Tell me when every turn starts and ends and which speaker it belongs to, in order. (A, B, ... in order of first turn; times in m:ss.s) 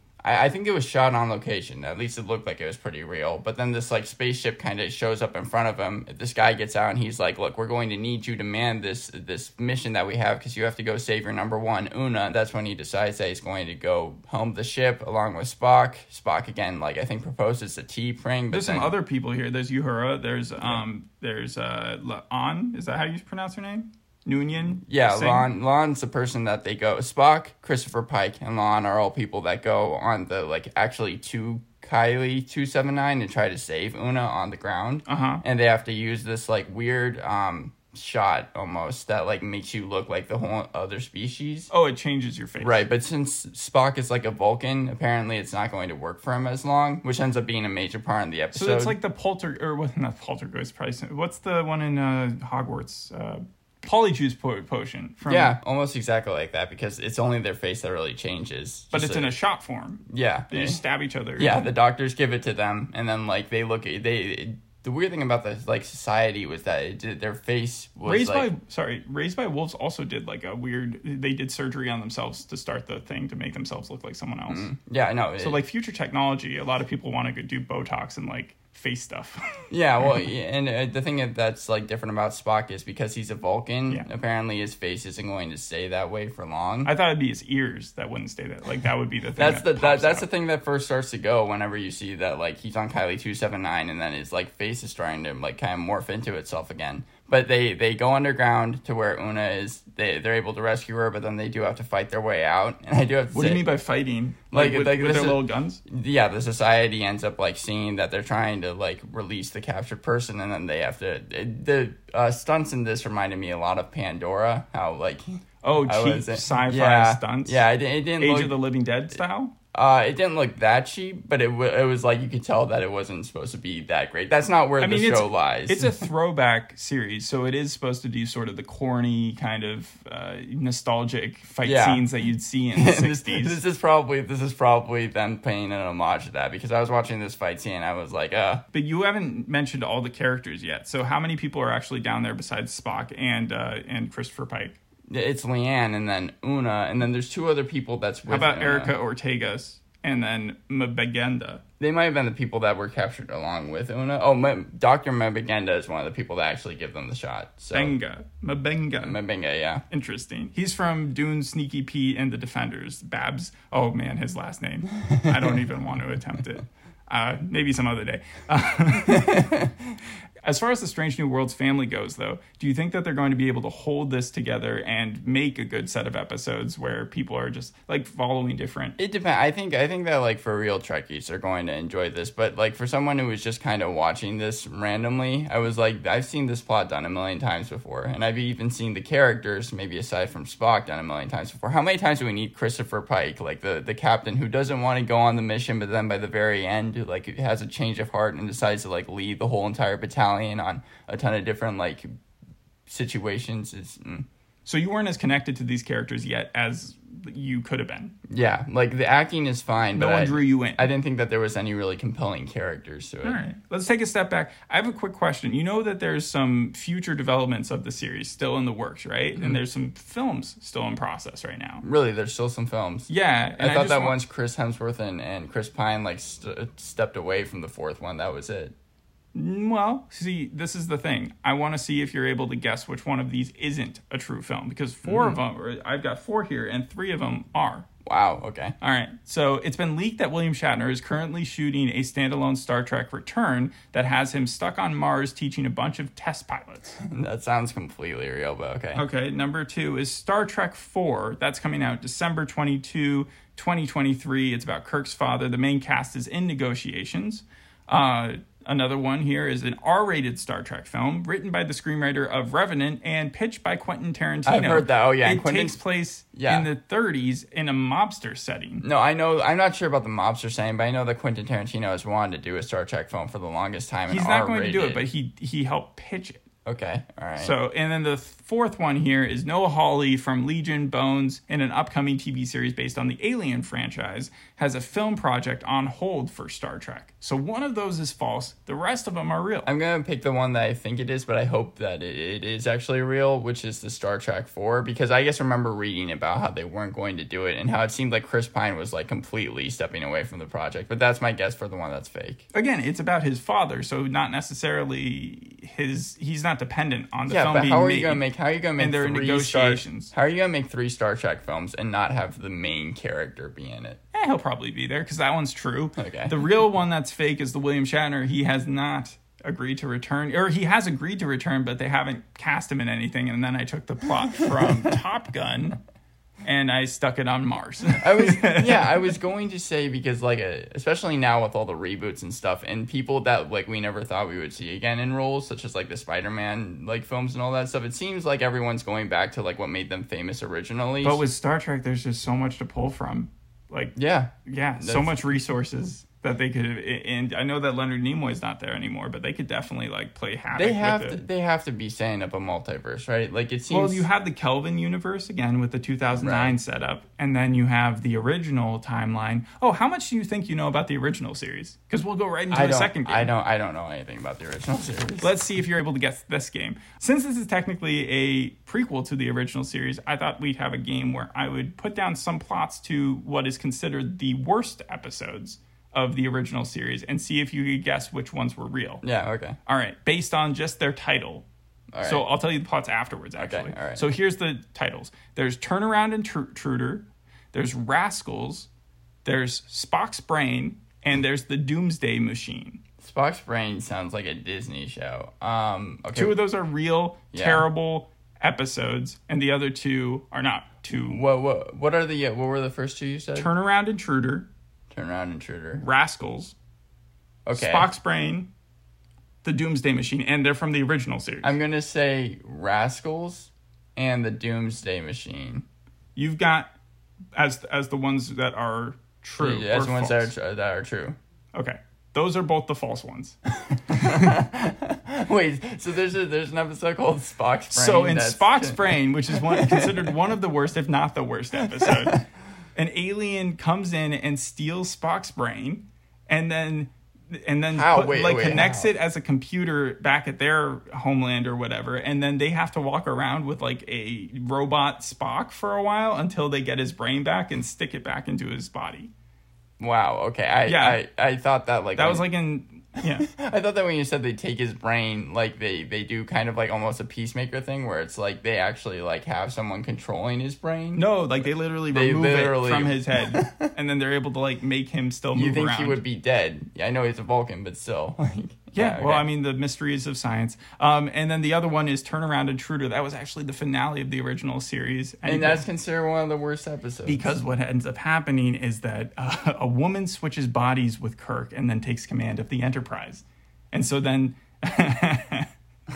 0:00.2-0:19.0 A
0:18.5-0:25.5 B
0:20.6-0:20.8 A
0:24.7-0:41.7 A
0:35.1-0:35.4 B
0:41.7-0:42.8 B
0:42.6-0:49.0 A
0:48.5-0:55.6 B
0:55.3-0:59.4 A
0:58.9-1:01.7 B
1:00.1-1:00.8 A
1:01.4-1:08.5 A
1:08.0-1:14.7 B
1:14.5-1:15.6 A
1:15.4-1:20.3 B
1:19.7-1:26.9 A
1:26.8-1:30.3 B
1:29.4-1:43.6 A
1:43.3-1:45.8 B
1:44.5-1:58.6 A
1:55.6-1:57.7 B
1:58.2-1:59.5 B
1:59.7-2:06.0 A
2:04.8-2:13.6 B
2:11.6-2:12.1 A
2:12.8-2:18.6 A
2:18.7-2:24.8 B
2:25.1-2:28.9 A
2:28.3-2:31.6 B
2:31.8-2:38.0 A
2:37.7-2:39.2 B
2:39.0-2:39.8 A
2:39.9-2:49.5 B
2:49.1-2:49.7 A
2:50.4-2:59.0 B
2:59.0-3:22.1 A
3:22.9-3:24.3 A
3:24.7-3:28.1 B
3:28.3-3:33.4 A
3:29.9-3:30.9 B
3:33.2-3:41.8 B
3:41.8-3:48.7 A
3:43.1-3:44.2 B
3:49.3-3:57.9 B
3:55.0-3:55.4 A
3:58.1-3:58.8 A
3:58.8-4:07.0 B
4:07.0-4:09.0 A
4:09.0-4:28.8 B
4:24.5-4:25.8 A
4:26.4-4:26.7 A
4:28.8-4:35.0 A
4:34.1-4:36.4 B
4:36.6-4:37.6 A
4:37.4-4:49.7 B
4:49.7-5:02.5 A
5:02.5-5:08.3 B
5:07.3-5:14.0 A
5:08.8-5:10.1 B
5:14.1-5:25.8 B
5:16.0-5:16.4 A
5:24.3-5:25.0 A
5:26.4-5:29.1 B
5:28.0-5:41.2 A
5:41.0-5:51.2 B
5:44.0-5:45.3 A
5:50.5-5:54.1 A
5:53.7-6:03.3 B
5:56.2-5:56.6 A
6:02.5-6:05.4 A
6:05.2-6:19.0 B
6:19.0-6:19.6 A
6:19.7-6:21.5 B
6:21.9-6:22.3 A
6:22.0-6:28.7 B
6:23.4-6:24.1 A
6:29.2-6:32.8 B
6:33.0-6:36.4 A
6:36.1-6:41.2 B
6:37.3-6:37.7 A
6:41.0-6:43.5 A
6:43.4-6:44.5 B
6:44.9-6:45.8 A
6:45.8-6:46.6 B
6:47.5-6:47.9 A
6:47.5-6:48.5 B
6:49.4-6:51.6 B
6:51.4-6:55.6 A
6:56.2-6:56.7 B
6:57.4-7:00.3 B
6:59.4-7:01.2 A
7:01.5-7:03.4 B
7:03.9-7:04.3 B
7:03.9-7:10.1 A
7:07.7-7:12.2 B
7:11.8-7:12.2 A
7:12.8-7:29.1 B
7:17.7-7:18.9 A
7:29.8-7:32.3 A
7:30.7-7:31.0 B
7:32.0-7:33.3 B
7:33.0-7:43.7 A
7:41.0-7:46.0 B
7:45.3-7:49.3 A
7:48.8-7:55.6 B
7:55.2-7:57.4 A
7:57.0-8:05.5 B